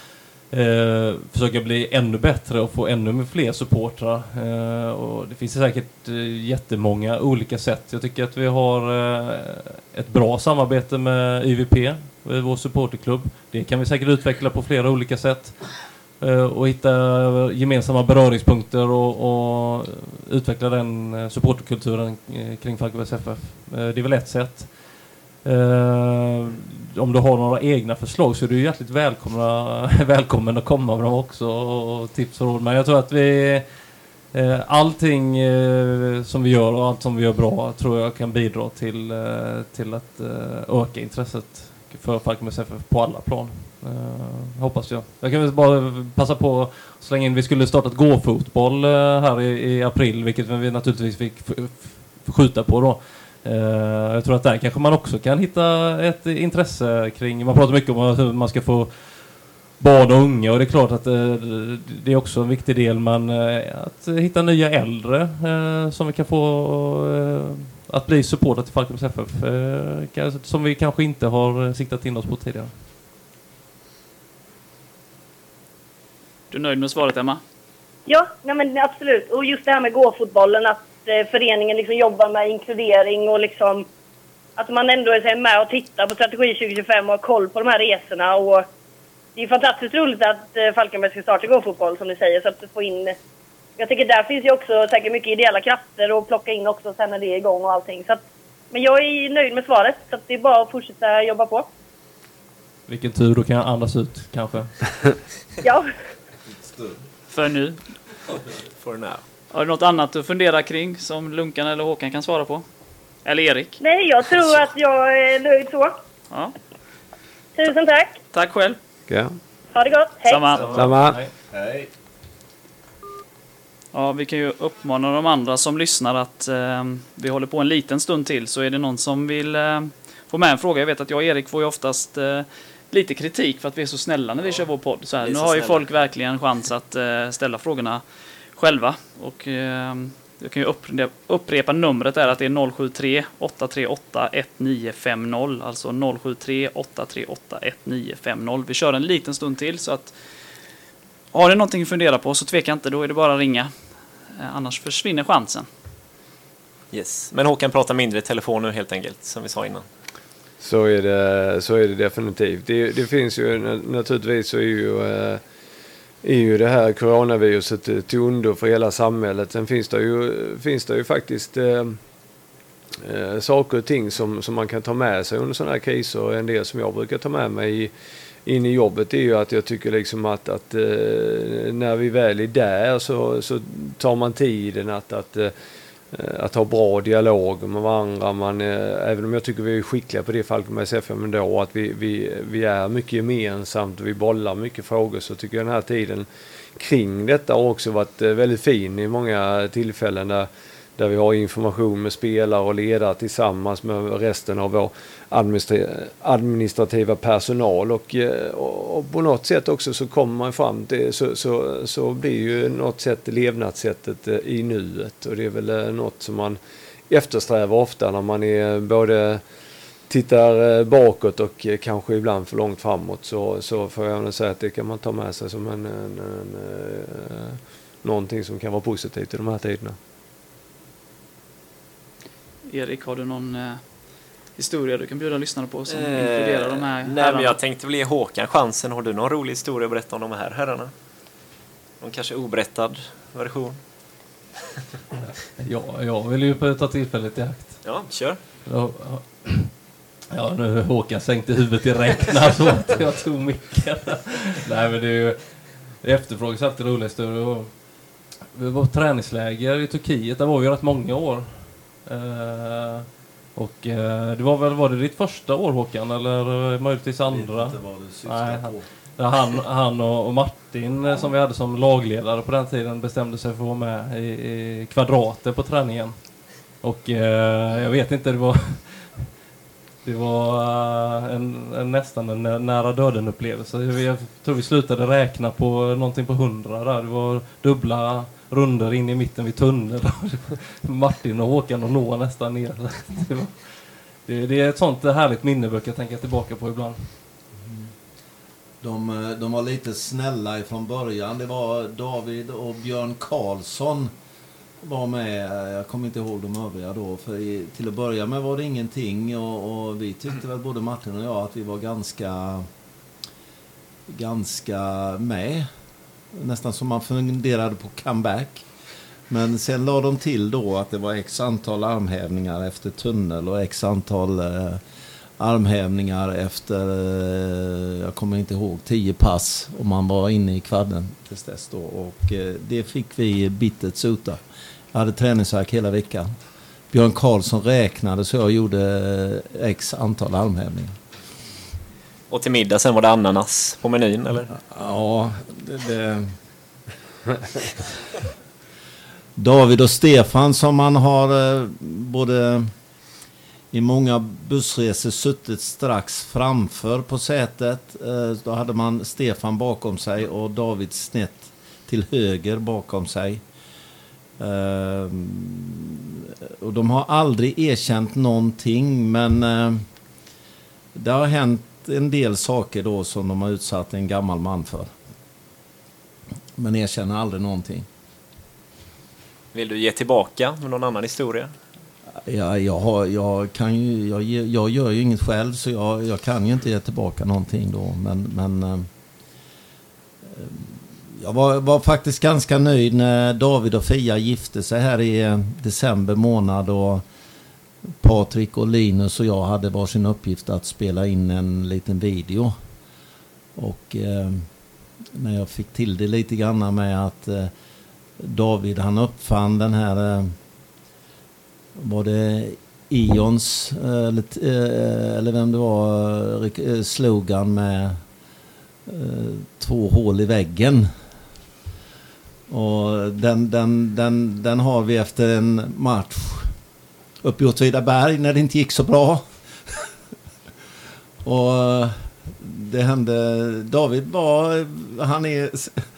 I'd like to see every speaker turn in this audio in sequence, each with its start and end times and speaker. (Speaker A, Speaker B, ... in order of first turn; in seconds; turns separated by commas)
Speaker A: 0.5-24.7, Speaker A: 25.4-33.6, Speaker A: 34.3-59.0, Speaker A: 59.8-72.7, Speaker B: 76.5-77.4, Speaker C: 78.1-83.9, Speaker C: 84.6-88.7, Speaker C: 89.3-93.2, Speaker C: 93.8-101.7, Speaker A: 102.9-104.8, Speaker C: 105.6-105.9, Speaker D: 106.5-107.0, Speaker B: 107.3-107.8, Speaker E: 108.8-109.2, Speaker B: 109.5-112.6, Speaker B: 113.2-113.8, Speaker C: 113.8-116.0, Speaker C: 117.5-118.2, Speaker B: 118.3-118.8, Speaker F: 119.1-119.3, Speaker C: 119.7-120.7, Speaker B: 120.3-120.8, Speaker A: 120.5-121.3, Speaker F: 120.7-121.2, Speaker D: 121.5-121.9, Speaker B: 123.9-138.0, Speaker E: 135.2-135.8, Speaker B: 138.6-150.1, Speaker B: 151.3-153.7, Speaker B: 154.3-155.7, Speaker E: 156.9-159.8, Speaker F: 160.6-165.4, Speaker F: 166.2-172.0, Speaker F: 173.0-177.9, Speaker F: 178.4-185.5, Speaker F: 186.1-219.4, Speaker F: 220.1-230.0, Speaker B: 232.7-233.8, Speaker B: 234.5-237.6, Speaker E: 235.9-240.9, Speaker E: 242.0-243.8, Speaker A: 245.6-247.8, Speaker E: 247.8-248.4, Speaker A: 248.7-249.7, Speaker A: 250.3-257.7, Speaker A: 258.5-276.1, Speaker D: 267.3-268.8, Speaker A: 276.8-279.3, Speaker A: 280.0-293.5, Speaker A: 294.2-297.1, Speaker D: 297.6-297.9, Speaker D: 298.8-304.1, Speaker D: 304.8-312.7, Speaker D: 314.1-315.7, Speaker D: 316.3-318.6, Speaker D: 319.3-324.8, Speaker D: 325.4-334.4, Speaker D: 334.9-336.3, Speaker D: 336.9-341.0, Speaker E: 342.3-344.5, Speaker D: 344.5-346.3, Speaker D: 349.4-352.7, Speaker D: 353.7-363.4, Speaker D: 364.4-369.8, Speaker D: 370.9-374.9, Speaker D: 376.6-377.9, Speaker E: 379.5-381.5, Speaker D: 382.2-388.9, Speaker D: 390.2-397.0, Speaker D: 398.0-402.5, Speaker D: 403.6-404.5, Speaker D: 405.1-407.5, Speaker D: 408.2-410.4, Speaker D: 411.8-418.0, Speaker D: 418.9-420.9, Speaker D: 422.5-426.5, Speaker D: 427.2-429.9, Speaker D: 431.2-435.8